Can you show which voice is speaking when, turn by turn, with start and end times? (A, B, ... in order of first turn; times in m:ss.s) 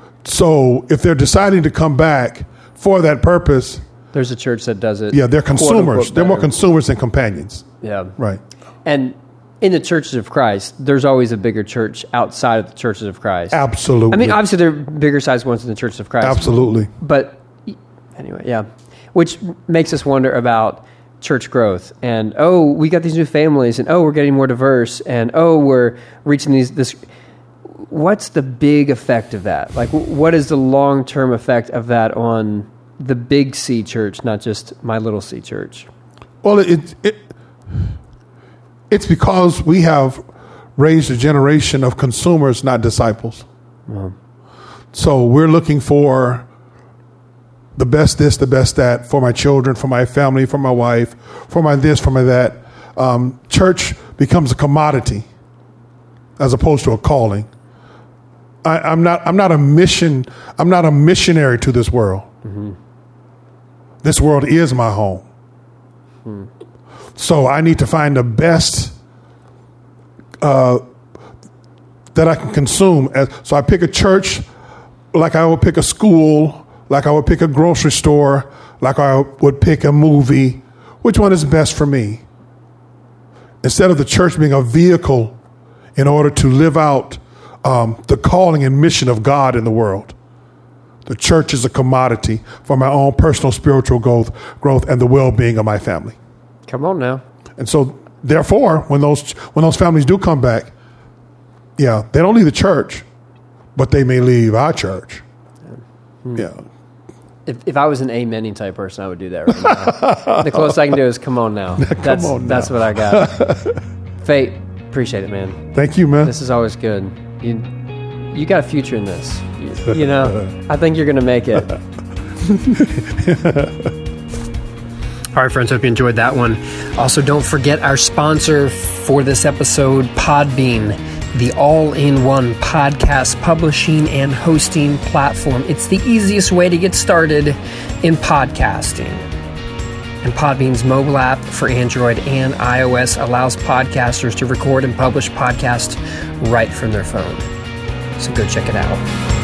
0:00.2-0:03.8 A
0:04.1-0:06.5 B
0:05.1-0:07.7 A
0:07.8-0:08.1 B
0:08.8-0:27.0 B
0:13.5-0:14.4 A
0:16.2-0:16.9 A
0:27.9-0:35.9 B
0:36.4-0:37.3 A
0:38.9-0:40.2 A
0:40.8-0:43.5 A
0:43.9-0:44.2 B
0:44.9-0:46.5 A
0:47.8-0:55.3 A
0:56.4-0:57.5 A
0:58.6-1:02.3 A
1:02.4-1:02.8 B
1:04.0-1:05.2 A
1:07.2-1:09.0 A
1:10.4-1:10.8 A
1:12.1-1:14.4 A
1:15.1-1:22.2 A
1:23.6-1:25.4 A
1:26.0-1:30.2 A
1:31.1-1:36.2 A
1:36.7-1:37.2 B
1:37.6-1:40.7 A
1:41.8-1:43.0 A
1:43.8-1:45.2 A
1:46.4-1:46.6 A
1:47.5-1:53.4 B
1:49.6-1:50.8 A
1:51.8-1:53.8 A
1:54.2-1:55.6 B
1:55.7-1:56.3 A
1:56.2-1:57.7 B
1:58.2-2:01.7 B
2:02.7-2:03.9 A
2:05.3-2:19.2 B
2:20.2-2:27.5 B
2:28.2-2:29.0 B